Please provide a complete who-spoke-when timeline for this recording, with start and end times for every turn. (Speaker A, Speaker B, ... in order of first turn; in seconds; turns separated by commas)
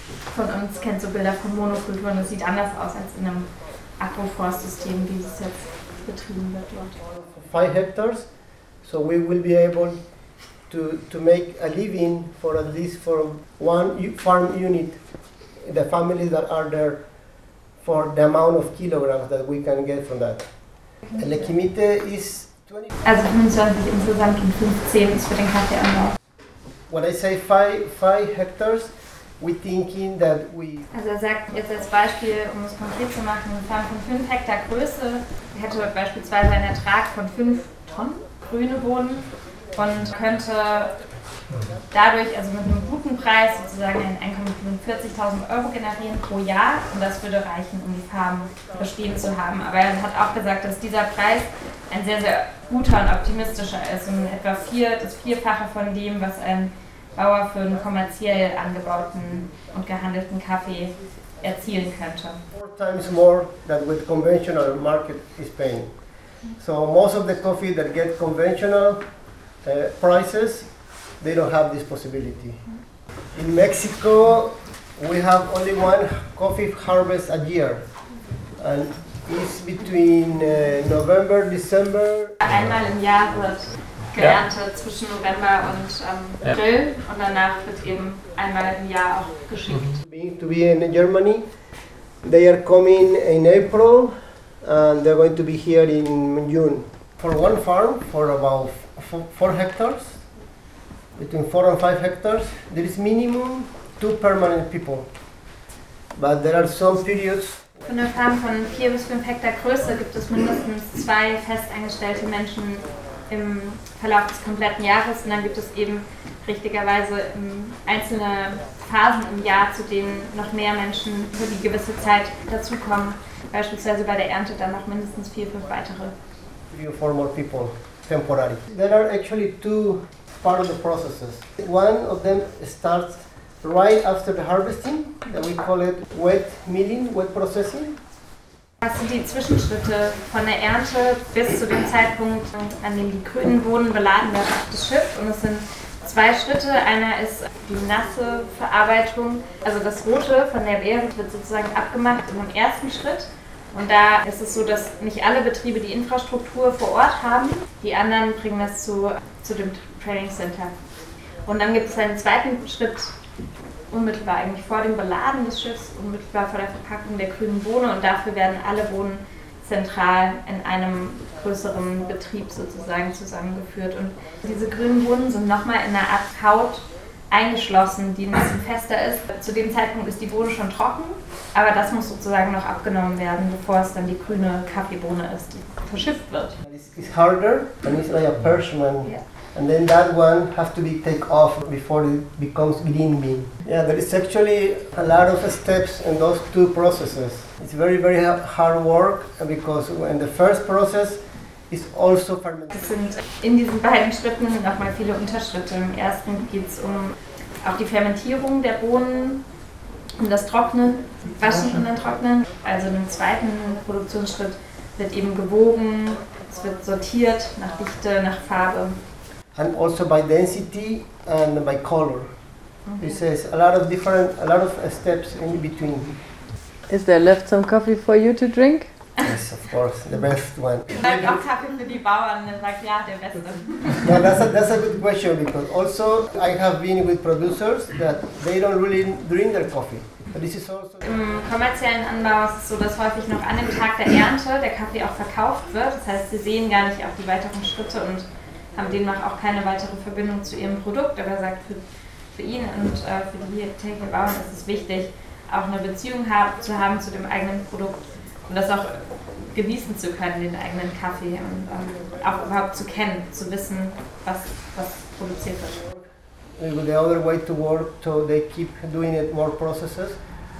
Speaker A: 0.2-7.0, Speaker B: 7.2-15.0, Speaker B: 15.6-17.1, Speaker B: 17.7-22.9, Speaker A: 23.0-26.1, Speaker B: 26.9-30.9, Speaker A: 30.9-41.0, Speaker A: 41.9-62.4, Speaker B: 62.5-69.1, Speaker B: 69.6-72.8, Speaker B: 73.3-77.9, Speaker B: 78.5-82.4, Speaker A: 82.4-90.0, Speaker B: 90.0-91.5, Speaker B: 92.2-100.2, Speaker B: 101.2-105.1, Speaker B: 106.1-107.8, Speaker A: 107.9-126.1, Speaker B: 126.7-138.0, Speaker A: 138.8-160.8, Speaker A: 161.4-163.1, Speaker A: 163.9-186.6, Speaker B: 186.6-202.8, Speaker A: 202.7-209.5, Speaker A: 210.2-219.0, Speaker B: 219.5-222.3, Speaker A: 222.8-223.2, Speaker B: 223.0-226.2, Speaker C: 226.9-228.9, Speaker B: 229.2-231.3, Speaker A: 230.9-234.3, Speaker B: 234.0-241.1, Speaker A: 241.0-265.8, Speaker B: 266.6-270.2